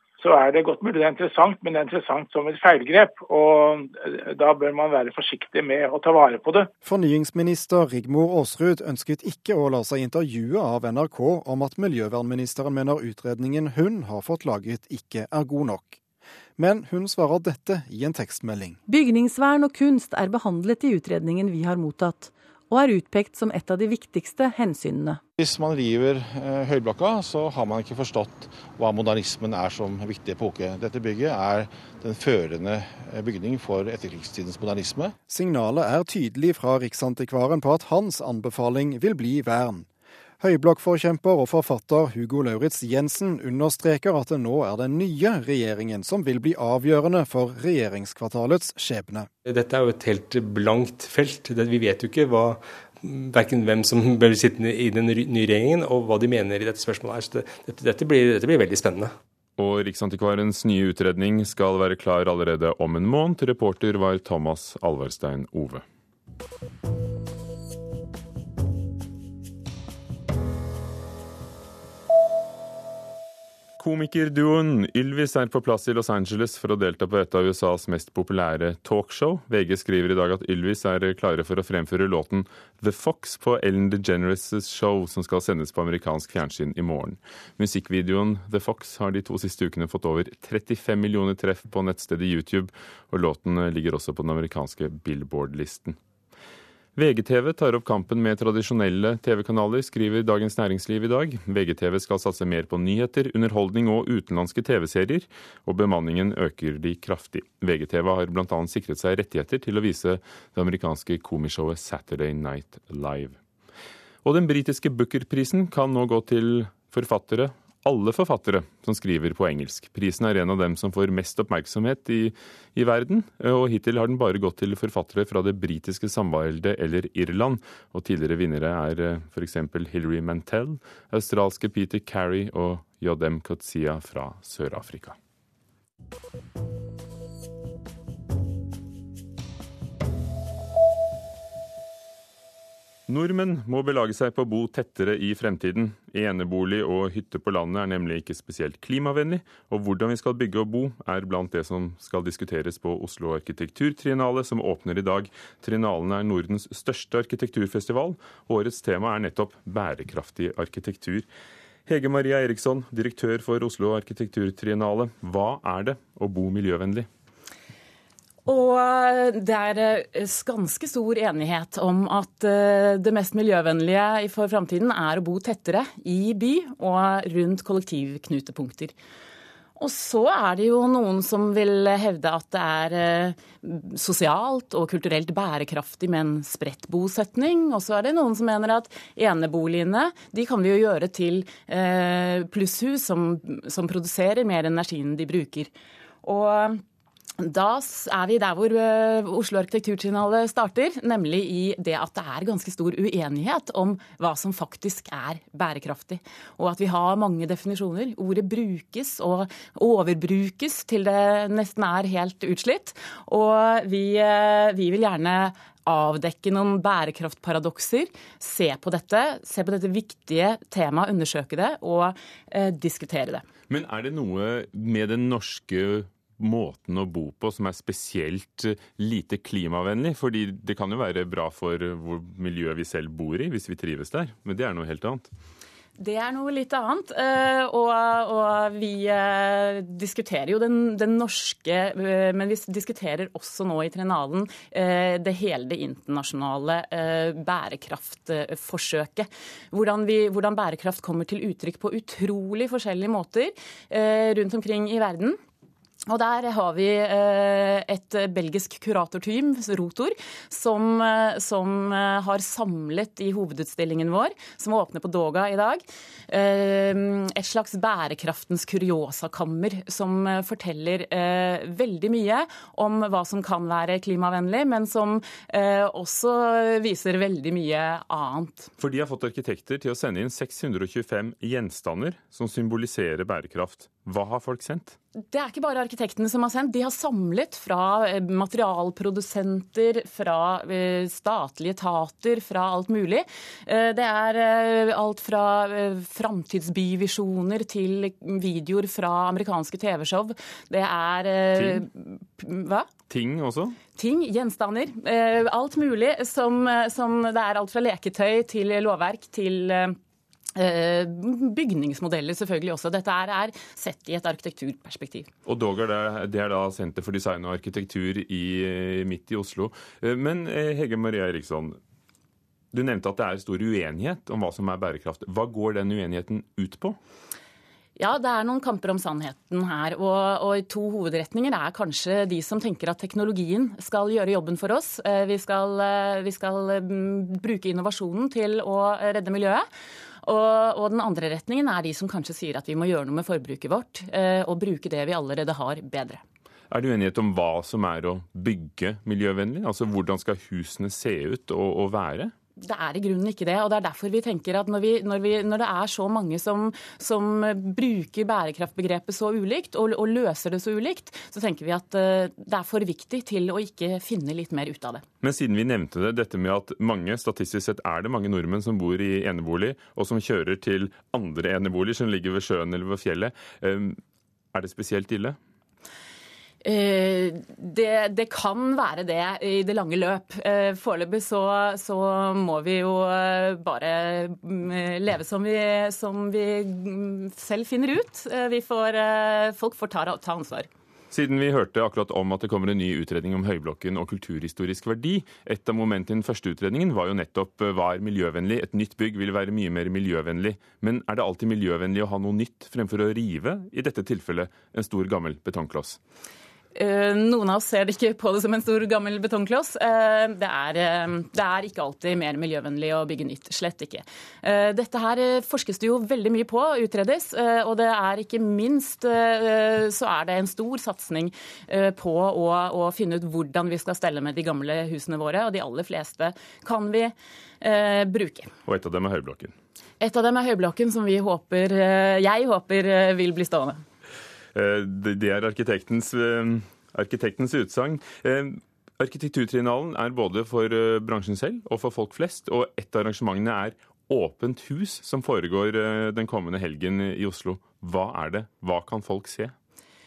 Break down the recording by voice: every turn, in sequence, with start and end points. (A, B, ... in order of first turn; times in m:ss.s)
0:00.2-0:06.7 A
0:06.8-0:16.0 B
0:16.6-0:18.8 B
0:18.9-0:25.2 C
0:25.4-0:35.1 D
0:35.3-0:39.9 B
0:40.4-0:49.3 B
0:49.4-0:59.1 E
0:59.6-1:05.8 F
1:13.8-1:36.0 F
1:37.0-1:53.4 F
1:54.2-2:15.2 F
2:23.1-2:41.3 F
2:41.8-2:47.1 F
2:48.4-2:58.9 G
2:59.8-3:15.7 G
3:16.2-3:16.8 G
3:17.4-3:43.4 G
3:43.7-3:55.3 F
3:56.0-4:15.4 G
4:16.1-4:38.7 G
4:38.8-4:45.0 F
4:45.2-5:02.9 G
5:01.6-5:01.8 F
5:03.1-5:03.8 F
5:03.9-5:10.0 G
5:10.6-5:15.3 G
5:15.4-5:21.8 F
5:22.7-5:27.0 F
5:28.0-5:39.6 G
5:40.2-5:46.2 G
5:46.7-5:52.3 F
5:52.6-6:05.0 G
6:05.2-6:14.0 F
6:14.5-6:15.4 F
6:16.6-6:30.7 G
6:31.1-6:46.0 F
6:46.7-7:08.5 G
7:08.6-7:09.5 F
7:10.0-7:13.8 G
7:14.5-7:29.5 F